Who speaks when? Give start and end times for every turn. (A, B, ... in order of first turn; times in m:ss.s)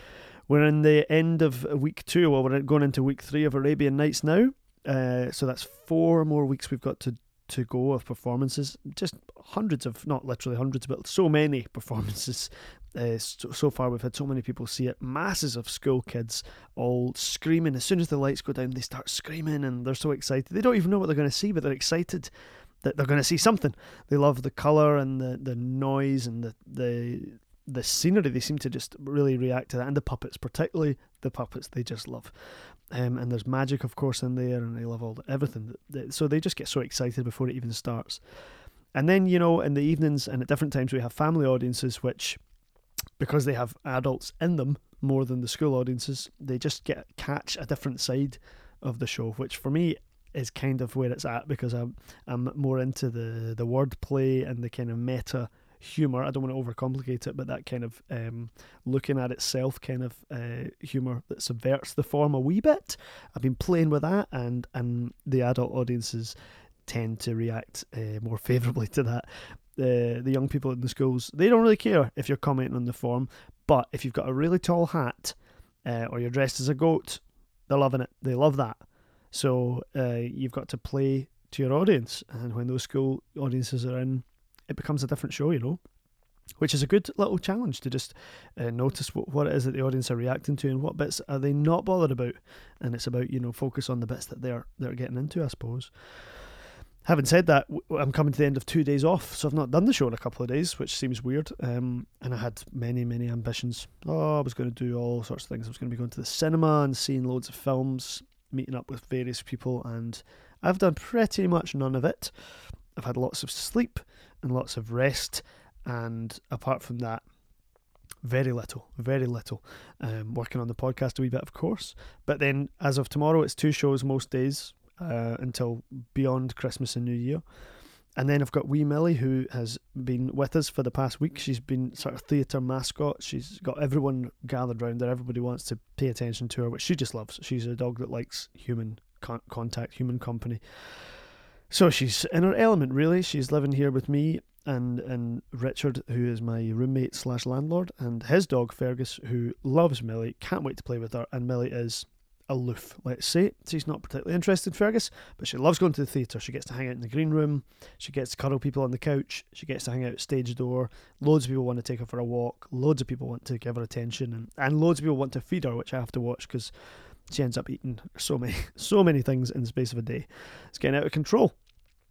0:00.5-0:22.3 A
0:22.8-0:32.3 A
0:32.9-0:38.2 A
0:38.9-0:42.4 A
0:43.2-1:06.3 A
1:06.8-1:25.8 A
1:26.6-1:35.9 A
1:37.0-1:52.3 A
1:53.0-1:57.2 A
1:58.2-2:07.4 A
2:08.2-2:20.6 A
2:21.7-2:46.7 A
2:47.3-2:51.5 A